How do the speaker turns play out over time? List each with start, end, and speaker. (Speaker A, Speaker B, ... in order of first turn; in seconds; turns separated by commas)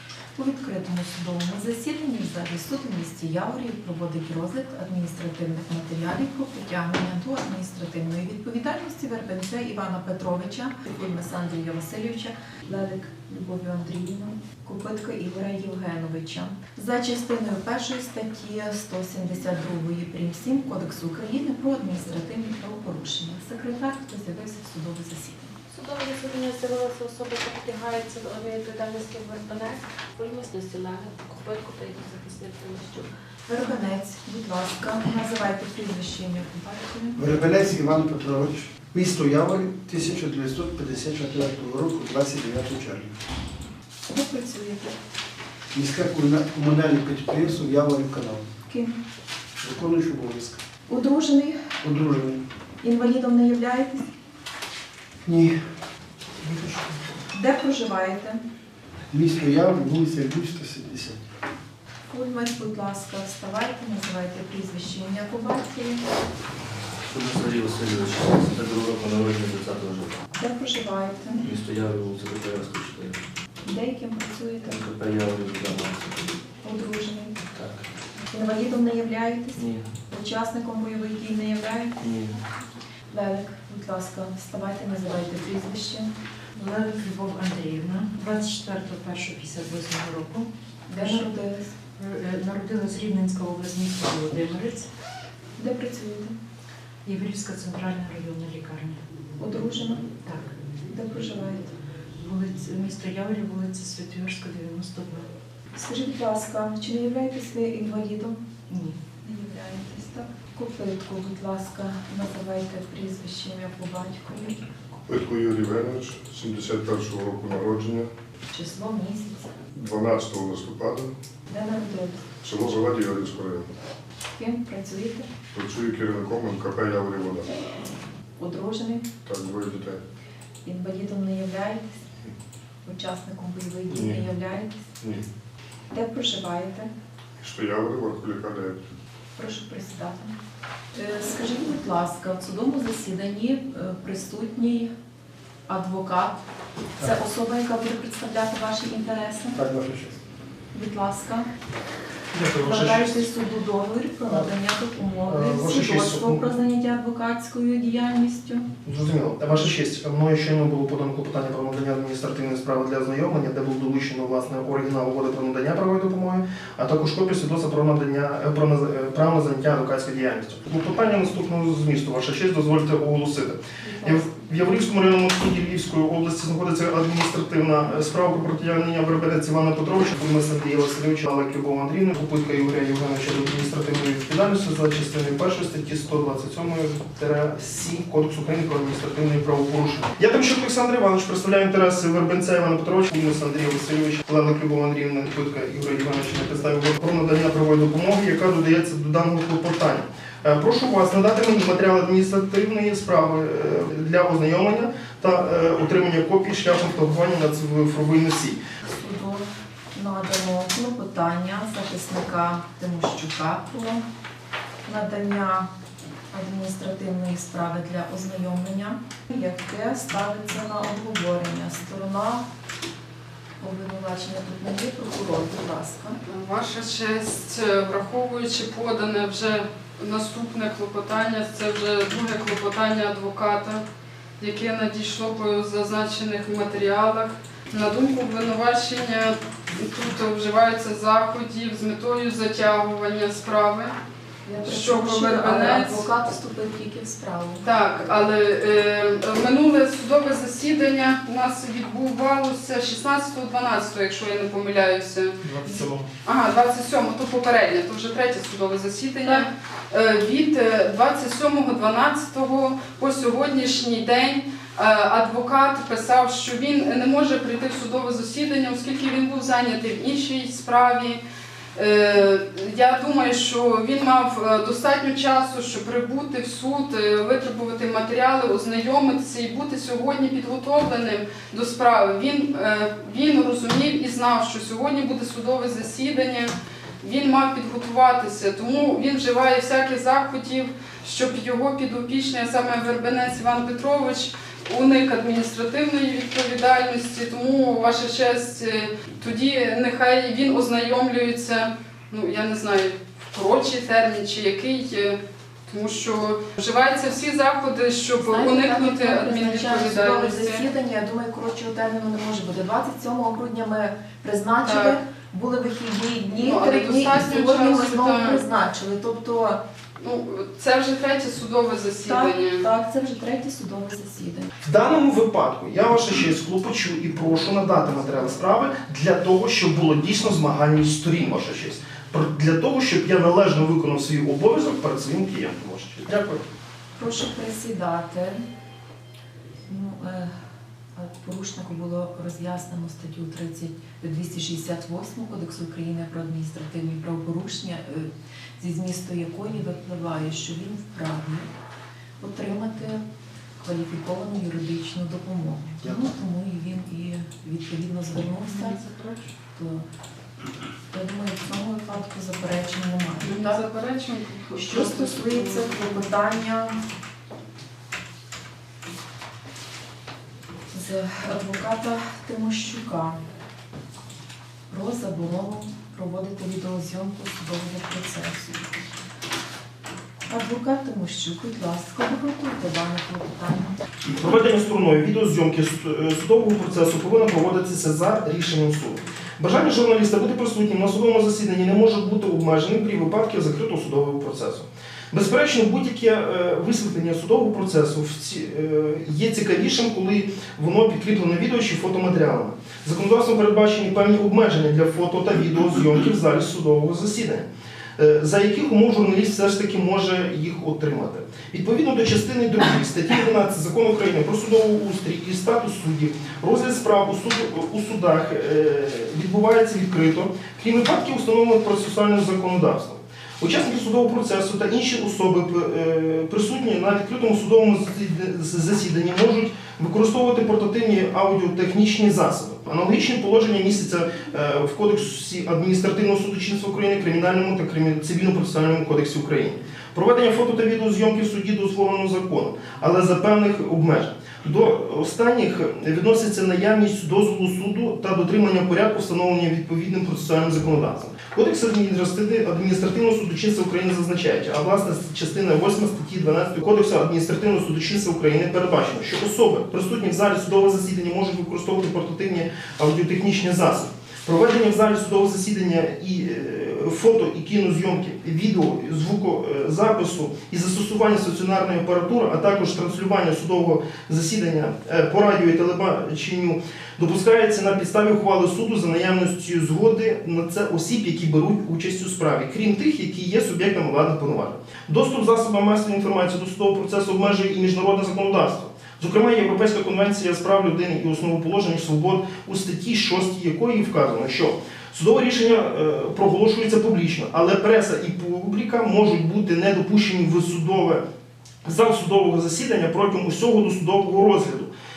Speaker A: 0.3-25.5, Speaker B: 25.7-33.1, Speaker A: 33.5-37.2, Speaker C: 37.2-43.1, Speaker A: 44.1-45.0, Speaker C: 45.7-48.4, Speaker A: 48.7-49.0, Speaker C: 49.6-50.6, Speaker A: 50.9-51.7, Speaker C: 51.8-52.4, Speaker A: 52.8-54.1, Speaker C: 55.3-55.6, Speaker C: 56.4-56.9, Speaker A: 57.3-58.4, Speaker C: 59.1-61.2, Speaker A: 62.1-66.0, Speaker D: 67.0-70.2, Speaker A: 70.4-71.5, Speaker D: 71.4-73.2, Speaker A: 73.6-74.8, Speaker D: 74.7-76.4, Speaker A: 76.6-77.3, Speaker D: 77.4-77.9, Speaker A: 78.3-82.0, Speaker D: 79.5-79.9, Speaker D: 82.0-82.3, Speaker A: 83.1-86.1, Speaker E: 86.5-91.3, Speaker A: 90.9-91.8, Speaker E: 92.0-94.9, Speaker A: 95.6-96.3, Speaker E: 97.0-99.0, Speaker A: 99.4-100.1, Speaker E: 100.2-100.5, Speaker A: 100.9-101.7, Speaker E: 102.2-105.3, Speaker A: 105.7-108.4, Speaker E: 108.7-109.0, Speaker A: 109.2-114.8, Speaker F: 115.1-118.1, Speaker A: 118.5-119.5, Speaker F: 119.7-121.1, Speaker A: 121.5-122.2, Speaker F: 122.4-123.7, Speaker A: 124.3-125.3, Speaker F: 125.5-127.5, Speaker A: 128.4-129.1, Speaker F: 129.2-130.0, Speaker A: 130.7-132.1, Speaker A: 132.8-134.9, Speaker A: 135.9-136.9, Speaker F: 137.4-138.9, Speaker A: 139.4-140.4, Speaker A: 140.9-144.9, Speaker A: 145.7-146.4, Speaker A: 147.0-149.6, Speaker C: 149.6-150.2, Speaker A: 150.7-151.5, Speaker G: 152.3-153.2, Speaker A: 152.6-158.7, Speaker G: 155.3-156.4, Speaker G: 158.8-208.6, Speaker A: 173.8-174.2, Speaker A: 208.8-214.1, Speaker A: 214.9-215.7, Speaker A: 216.3-222.5, Speaker A: 223.6-226.2, Speaker H: 226.2-233.8, Speaker H: 234.4-243.9, Speaker A: 244.4-247.7, Speaker H: 244.7-246.1, Speaker H: 247.6-271.2, Speaker G: 255.4-256.0, Speaker H: 271.8-310.7, Speaker A: 308.2-319.6, Speaker H: 314.6-315.0, Speaker H: 316.4-318.4, Speaker H: 320.0-322.7, Speaker A: 322.1-324.5, Speaker G: 324.6-336.4, Speaker A: 337.0-338.4, Speaker A: 339.7-340.3, Speaker A: 341.0-351.5, Speaker A: 352.2-353.0, Speaker A: 353.6-358.8, Speaker H: 358.5-359.3, Speaker A: 359.6-359.9, Speaker A: 360.9-363.6, Speaker H: 363.2-366.1, Speaker A: 364.5-366.8, Speaker A: 370.7-373.2, Speaker A: 374.7-378.7, Speaker A: 380.3-383.8, Speaker G: 384.1-407.5, Speaker G: 408.0-501.0, Speaker G: 501.6-504.7